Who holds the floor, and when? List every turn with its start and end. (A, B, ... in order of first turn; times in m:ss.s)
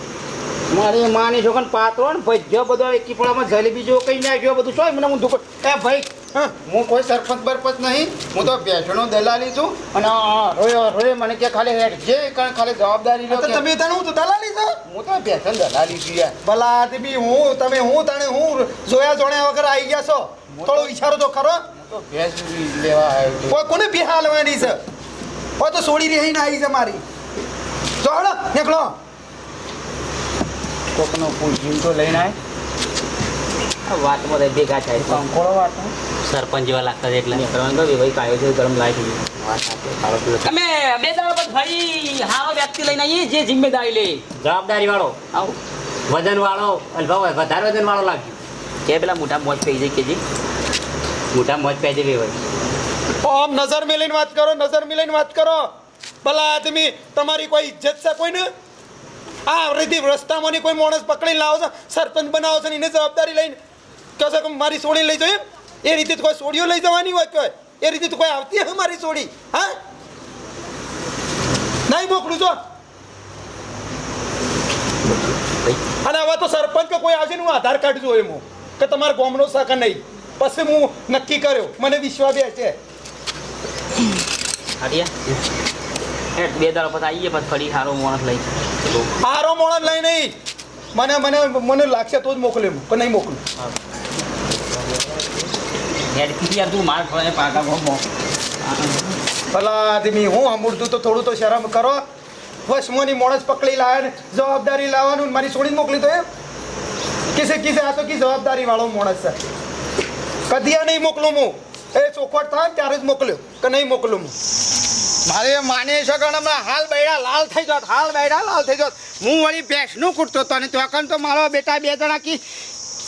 0:00.7-0:13.6 A
0:13.3-0:14.8 B
0:14.8-0:16.4 A
0:16.4-0:21.6 B
0:20.5-0:20.9 A
0:21.7-0:23.6 A
0:23.5-0:24.8 B
0:25.6-0:27.0 B
0:28.0-0:28.9 B
0:30.9-0:32.4 A
0:33.9-0:35.2 C
0:35.0-0:35.9 A
0:36.2-0:37.4 D
0:37.3-0:39.2 C
0:39.4-0:40.5 D
0:40.4-0:44.2 C
0:44.4-0:45.2 D
0:46.1-0:48.4 D
0:48.8-0:50.2 C
0:51.3-0:52.4 D
0:53.2-0:55.6 B
0:56.2-0:58.4 B
0:59.5-1:03.6 B
1:04.2-1:09.7 B
1:11.9-1:12.5 B
1:15.0-1:15.8 D
1:16.0-1:22.7 B
1:24.8-1:25.1 C
1:26.4-1:29.1 C
1:29.2-1:30.3 B
1:30.9-1:33.4 B
1:36.1-1:38.1 C
1:38.6-1:39.0 C
1:39.5-1:42.0 B
1:42.7-1:46.2 B
1:47.3-1:49.4 B
1:50.5-1:54.3 B
1:55.2-2:02.4 A